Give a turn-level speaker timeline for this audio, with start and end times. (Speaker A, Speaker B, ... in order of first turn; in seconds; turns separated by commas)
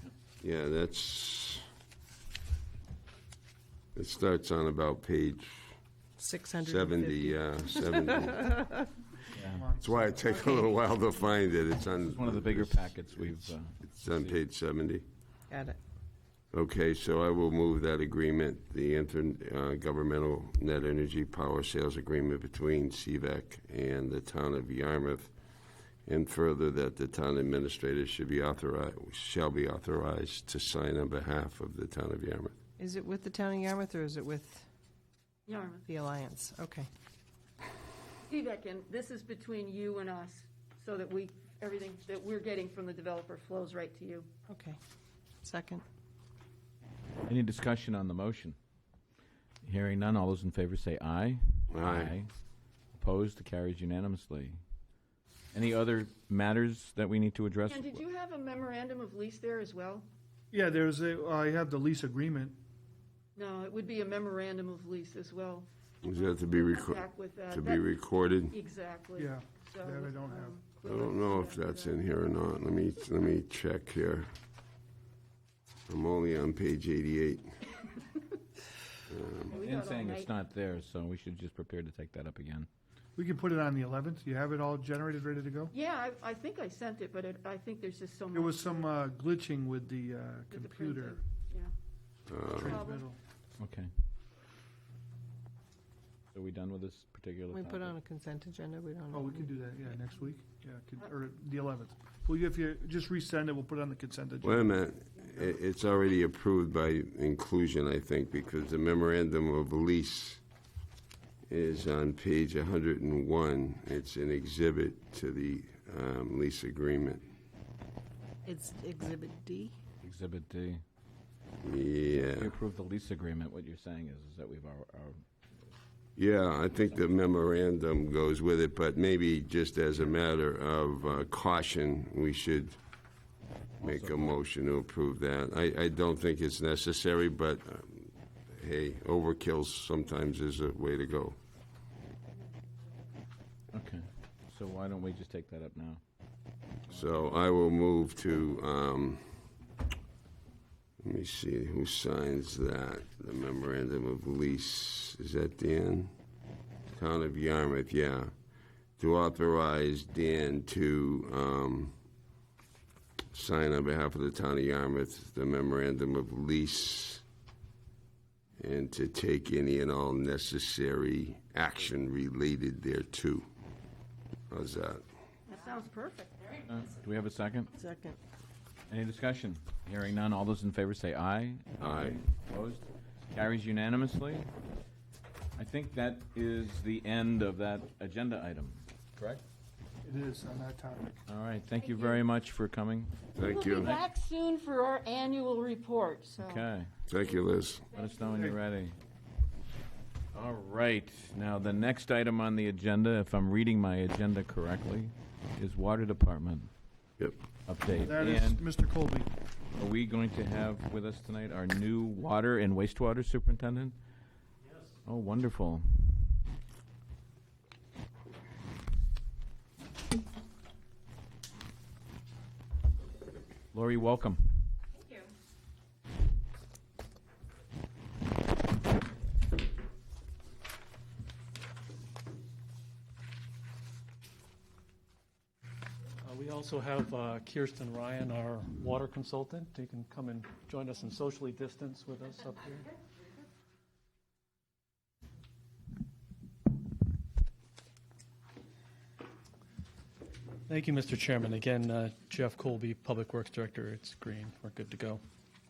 Speaker A: 0.4-1.6, Speaker A: 3.9-5.5, Speaker B: 6.2-8.8, Speaker A: 6.7-8.6, Speaker C: 9.3-10.4, Speaker D: 9.4-9.6, Speaker A: 9.8-13.0, Speaker D: 12.0-14.3, Speaker A: 13.8-15.0, Speaker B: 15.5-15.8, Speaker A: 16.5-25.3, Speaker A: 26.1-32.5, Speaker B: 32.8-34.7, Speaker E: 35.5-35.9, Speaker B: 35.9-36.9, Speaker E: 38.2-44.3, Speaker B: 44.5-44.8, Speaker B: 45.4-45.8, Speaker D: 47.3-48.5, Speaker D: 49.6-52.3, Speaker A: 51.7-52.1, Speaker D: 52.9-54.6, Speaker D: 55.5-58.0, Speaker E: 57.7-60.1, Speaker C: 60.5-62.6, Speaker E: 63.4-67.9, Speaker A: 66.0-68.5, Speaker E: 68.5-72.0, Speaker C: 69.2-70.5, Speaker A: 70.8-74.3, Speaker A: 75.9-77.7, Speaker A: 79.1-79.5, Speaker E: 79.5-80.3, Speaker D: 79.5-82.7, Speaker C: 83.2-85.7, Speaker E: 85.7-88.9, Speaker C: 88.3-91.2, Speaker E: 90.5-91.7, Speaker A: 92.3-92.8, Speaker C: 92.5-93.2, Speaker E: 92.6-93.1, Speaker D: 93.6-93.9, Speaker D: 96.3-97.9, Speaker B: 97.5-99.5, Speaker C: 99.1-104.8, Speaker A: 104.4-110.4, Speaker A: 111.5-117.2, Speaker B: 118.4-119.7, Speaker D: 120.0-120.8, Speaker A: 121.6-122.5, Speaker D: 122.1-125.2, Speaker A: 126.2-132.8, Speaker A: 133.8-141.3, Speaker D: 133.8-134.3, Speaker D: 143.7-146.0, Speaker D: 146.9-147.2, Speaker A: 146.9-149.2, Speaker A: 151.0-156.1, Speaker A: 156.9-158.3, Speaker A: 159.0-161.9, Speaker A: 163.3-167.2, Speaker A: 168.6-173.4, Speaker A: 174.5-175.0, Speaker E: 175.5-176.5, Speaker D: 176.7-177.7, Speaker B: 177.7-178.2, Speaker D: 178.9-184.5, Speaker A: 181.8-182.2, Speaker D: 185.6-189.4, Speaker C: 190.0-191.2, Speaker D: 191.3-193.2, Speaker A: 193.3-194.0, Speaker E: 193.4-196.7, Speaker D: 196.4-196.9, Speaker A: 197.1-197.8, Speaker D: 197.9-198.9, Speaker D: 200.3-206.7, Speaker D: 207.7-208.6, Speaker C: 208.0-209.3, Speaker D: 209.8-213.9, Speaker D: 215.1-216.3, Speaker D: 223.7-224.5, Speaker F: 236.2-242.9, Speaker F: 250.7-255.2